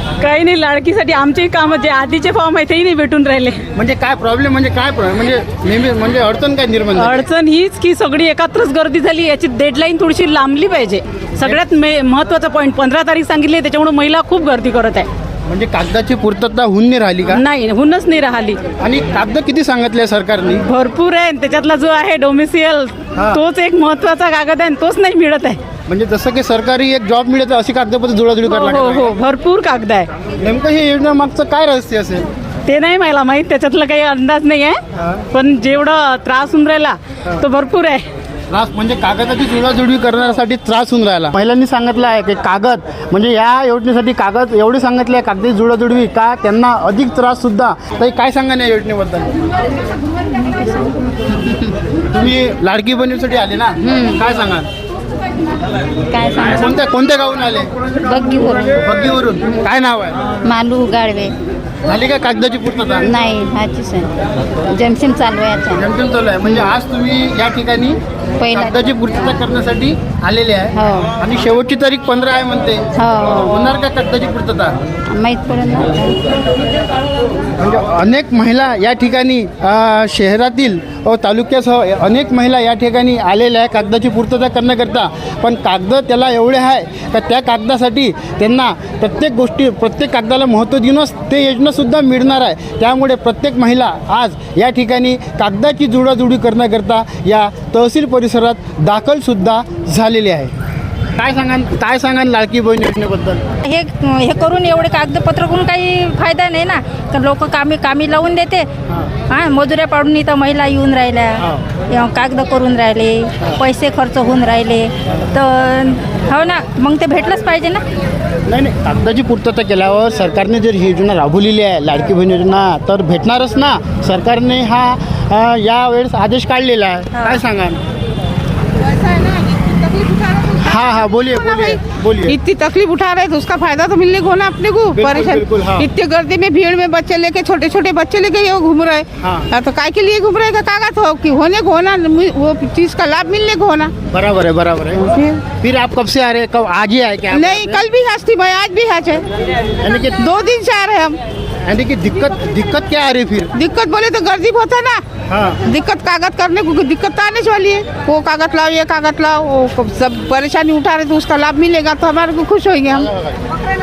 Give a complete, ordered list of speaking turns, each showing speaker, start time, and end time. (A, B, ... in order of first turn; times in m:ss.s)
0:00.2-0:03.6 A
0:03.7-0:07.3 B
0:06.9-0:15.1 A
0:15.4-0:17.4 B
0:17.3-0:18.6 A
0:18.8-0:20.6 B
0:20.6-0:25.6 A
0:23.1-0:23.4 B
0:25.9-0:29.1 B
0:28.4-0:30.1 A
0:30.4-0:32.3 B
0:32.7-0:34.8 A
0:35.0-0:35.2 B
0:35.3-0:38.0 A
0:38.5-0:49.4 B
0:51.9-0:54.7 B
0:53.8-0:54.2 C
0:56.1-0:56.8 C
0:56.5-0:57.7 B
0:58.0-0:58.8 C
0:58.8-1:00.2 B
1:00.4-1:01.3 C
1:01.8-1:03.1 B
1:03.0-1:05.8 C
1:05.7-1:08.0 B
1:06.4-1:06.7 C
1:08.4-1:09.4 C
1:08.5-1:14.8 B
1:10.7-1:11.1 C
1:13.0-1:13.6 C
1:15.1-1:16.3 C
1:17.6-1:40.5 B
1:41.2-1:43.4 B
1:43.6-1:48.7 D
1:49.3-1:57.8 D
1:51.4-1:51.7 B
1:58.5-2:07.8 B
2:08.8-2:10.7 E
2:10.5-2:12.4 B
2:11.5-2:23.9 E
2:14.9-2:15.9 B
2:19.2-2:19.5 B
2:24.1-2:27.8 B
2:27.3-2:29.2 E
2:29.8-2:30.2 B
2:30.2-2:31.2 E
2:31.6-2:33.5 B
2:33.5-2:35.0 E
2:35.3-2:35.6 B
2:35.6-2:43.1 E
2:43.0-2:43.3 B